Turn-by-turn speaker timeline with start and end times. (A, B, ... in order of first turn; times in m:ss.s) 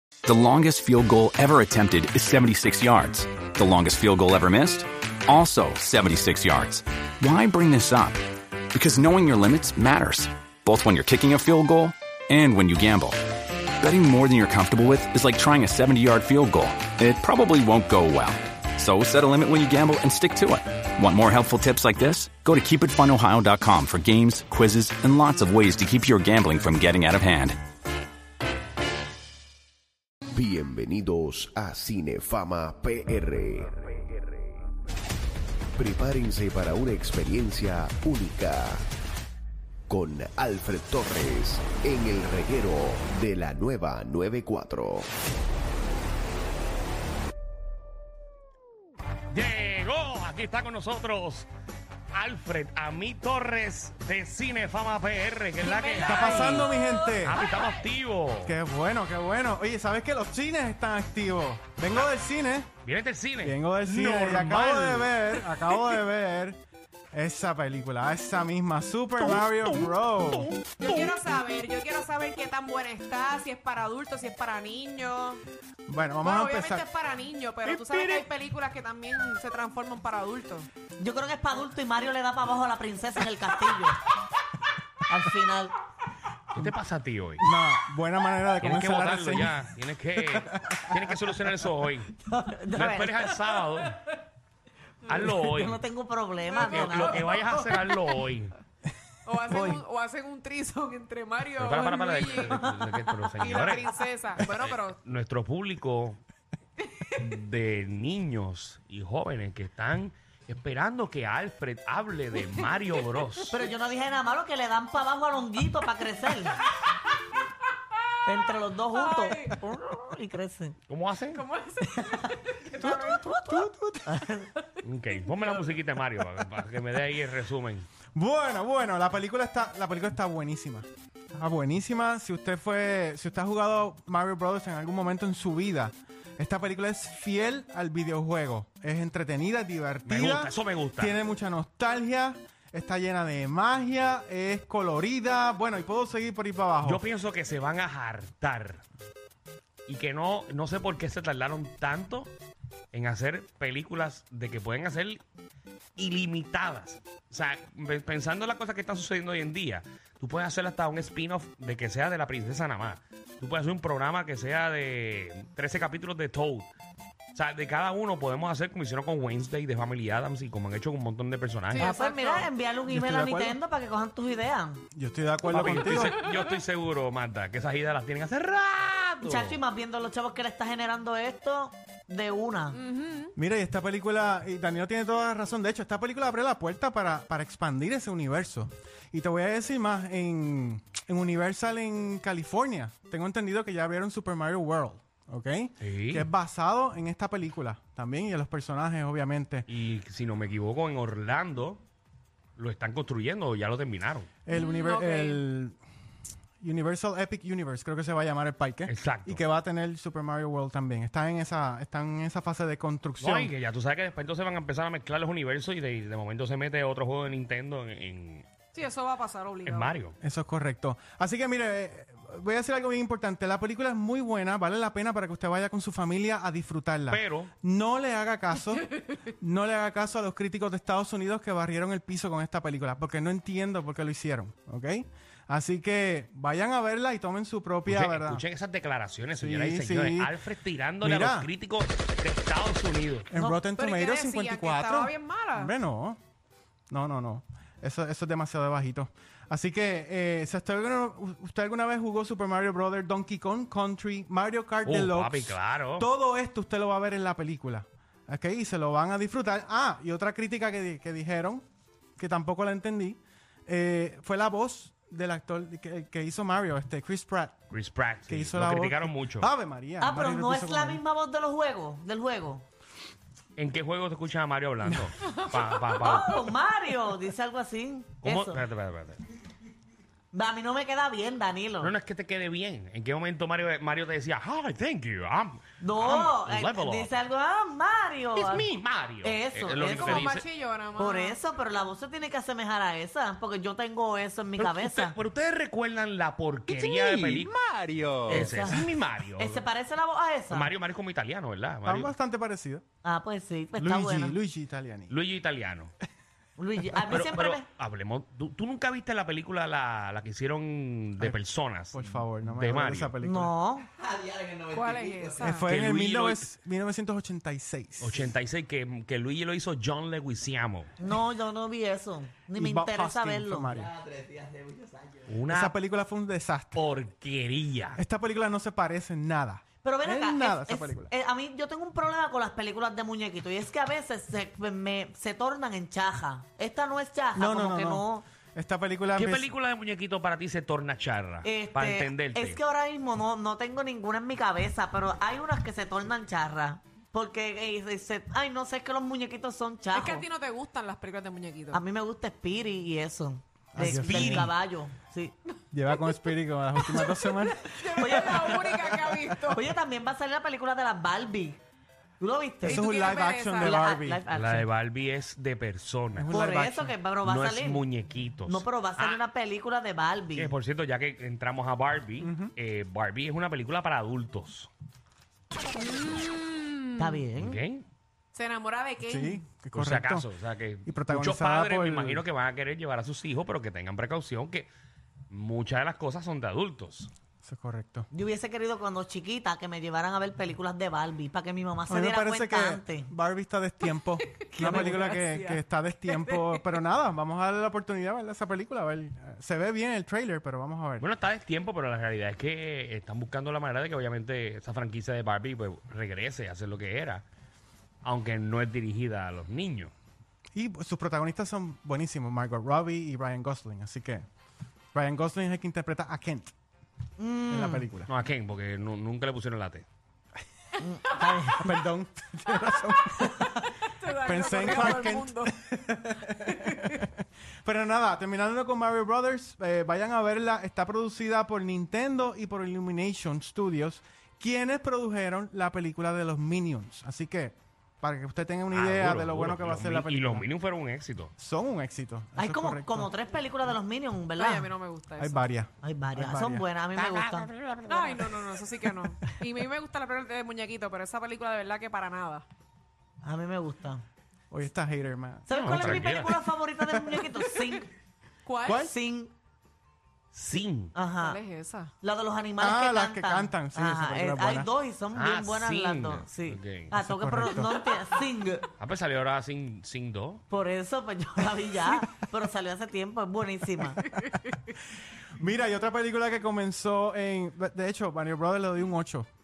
0:00.2-0:08.2 A
0:08.7-0:13.2 A
0:13.8-0:27.6 A
0:30.3-0:33.7 B
0:35.8-0:38.8 B
0:39.9-0:45.1 B
0:49.3-0:51.5 C
0:52.1-0:56.7 C
0:55.6-0:56.5 D
0:56.0-0:57.4 E
0:57.2-0:58.5 C
0:58.4-1:02.7 E
1:02.8-1:06.0 C
1:03.4-1:06.6 E
1:07.1-1:10.5 E
1:09.2-1:11.2 C
1:10.8-1:15.4 D
1:15.9-1:16.8 E
1:16.2-1:20.7 D
1:17.6-1:18.3 C
1:21.0-1:24.0 F
1:25.1-1:25.7 F
1:26.5-1:27.4 C
1:27.4-1:29.6 E
1:28.6-1:32.1 C
1:30.3-1:31.0 E
1:32.2-1:33.4 F
1:32.7-1:34.0 C
1:35.1-1:35.8 C
1:35.2-1:37.2 F
1:36.4-1:38.2 D
1:36.7-1:38.5 C
1:39.2-1:45.0 D
1:39.5-1:39.8 F
1:41.6-1:46.2 C
1:46.9-1:47.2 D
1:47.2-1:53.5 C
1:53.5-1:56.6 F
1:58.2-2:00.8 F
1:58.9-1:59.5 D
2:00.9-2:01.4 C
2:01.3-2:03.2 D
2:02.8-2:04.5 F
2:02.8-2:04.2 E
2:04.8-2:07.9 C
2:08.1-2:27.0 E
2:20.0-2:21.1 C
2:26.8-2:28.8 C
2:29.9-2:32.3 C
2:32.9-2:35.2 C
2:36.0-2:46.7 C
2:47.3-2:51.9 C
2:51.7-2:52.5 D
2:51.8-2:54.8 F
2:52.9-2:53.6 E
2:54.9-2:56.2 E
2:55.5-2:59.6 C
2:59.2-3:02.8 F
3:02.7-3:03.3 D
3:03.4-3:19.6 E
3:15.8-3:16.3 C
3:19.7-3:21.8 C
3:22.6-3:24.3 C
3:24.4-3:25.8 E
3:24.5-3:25.4 D
3:26.6-3:33.5 E
3:28.8-3:29.4 C
3:33.2-3:38.4 C
3:38.7-3:39.9 D
3:39.6-3:40.2 C
3:40.2-3:58.4 E
3:47.1-3:47.5 C
3:57.9-4:03.3 C
3:59.4-4:00.3 E
4:01.0-4:01.5 E
4:03.3-4:06.2 E
4:03.3-4:05.7 D
4:06.9-4:21.6 E
4:14.8-4:16.1 C
4:22.2-4:27.6 E
4:27.7-4:29.5 C
4:28.3-4:31.0 E
4:30.0-4:32.6 F
4:33.6-4:36.4 C
4:36.0-4:38.6 F
4:38.2-4:39.2 C
4:40.3-4:41.9 F
4:41.8-4:47.1 C
4:45.8-4:48.7 F
4:48.3-4:50.4 C
4:49.2-4:50.3 F
4:49.8-4:51.4 D
4:51.0-4:55.2 F
4:54.6-4:59.6 C
4:58.3-4:58.8 F
4:59.4-5:00.7 F
5:00.5-5:02.1 C
5:01.8-5:02.8 E
5:03.0-5:04.4 F
5:03.8-5:05.2 E
5:05.1-5:05.9 C
5:06.6-5:07.7 F
5:07.1-5:13.1 C
5:11.9-5:13.5 E
5:13.2-5:13.9 F
5:14.7-5:15.7 D
5:15.4-5:18.2 E
5:15.6-5:16.5 C
5:18.0-5:20.9 C
5:21.0-5:23.7 F
5:22.5-5:23.9 E
5:25.3-5:25.7 C
5:25.5-5:26.8 E
5:26.7-5:28.0 C
5:28.0-5:31.1 E
5:29.8-5:38.2 F
5:37.3-5:39.5 E
5:39.2-5:42.6 C
5:41.4-5:50.2 F
5:49.9-5:51.8 D
5:51.7-5:55.3 F
5:53.7-5:54.5 E
5:53.8-5:54.5 C
5:55.7-5:59.0 E
5:57.1-5:59.6 D
5:58.0-5:58.8 F
5:59.5-6:01.6 F
6:02.2-6:03.0 F
6:02.6-6:03.8 D
6:02.6-6:04.2 E
6:03.6-6:04.7 F
6:04.3-6:06.3 C
6:06.2-6:06.9 E
6:06.3-6:07.8 F
6:07.2-6:09.2 C
6:08.5-6:10.5 F
6:10.3-6:14.7 C
6:12.2-6:12.5 E
6:15.8-6:17.2 D
6:17.0-6:17.6 F
6:17.4-6:17.8 C
6:18.3-6:19.4 D
6:19.0-6:20.2 E
6:19.7-6:24.7 C
6:20.8-6:22.2 E
6:25.3-6:27.1 C
6:27.4-6:28.1 E
6:28.1-6:33.1 F
6:31.9-6:41.0 E
6:34.3-6:36.7 D
6:34.6-6:35.0 F
6:41.0-6:47.2 C
6:48.0-6:49.9 C
6:50.5-6:54.2 E
6:54.9-6:56.5 E
6:57.2-6:57.9 F
6:57.5-6:58.1 E
6:58.1-6:59.8 C
7:00.8-7:01.7 F
7:01.6-7:03.6 E
7:03.8-7:05.5 D
7:04.2-7:20.4 E
7:06.3-7:07.0 D
7:18.7-7:21.3 C
7:21.4-7:23.1 E
7:22.4-7:24.7 F
7:24.4-7:25.4 D
7:25.2-7:26.6 E
7:25.8-7:27.5 F
7:27.0-7:28.0 C
7:27.9-7:32.4 D
7:33.2-7:34.0 F
7:34.5-7:37.5 E
7:35.5-7:37.9 F
7:35.5-7:36.3 C
7:38.4-7:38.9 D
7:38.6-7:38.9 E
7:38.8-7:39.3 F
7:40.3-7:40.9 C
7:40.9-7:41.4 F
7:41.2-7:41.9 D
7:42.0-7:48.7 F
7:42.6-7:44.7 E
7:45.1-7:46.9 C
7:46.9-7:47.9 E
7:48.8-7:50.4 C
7:50.5-7:54.1 F
7:54.0-7:54.3 D
7:55.4-7:59.3 E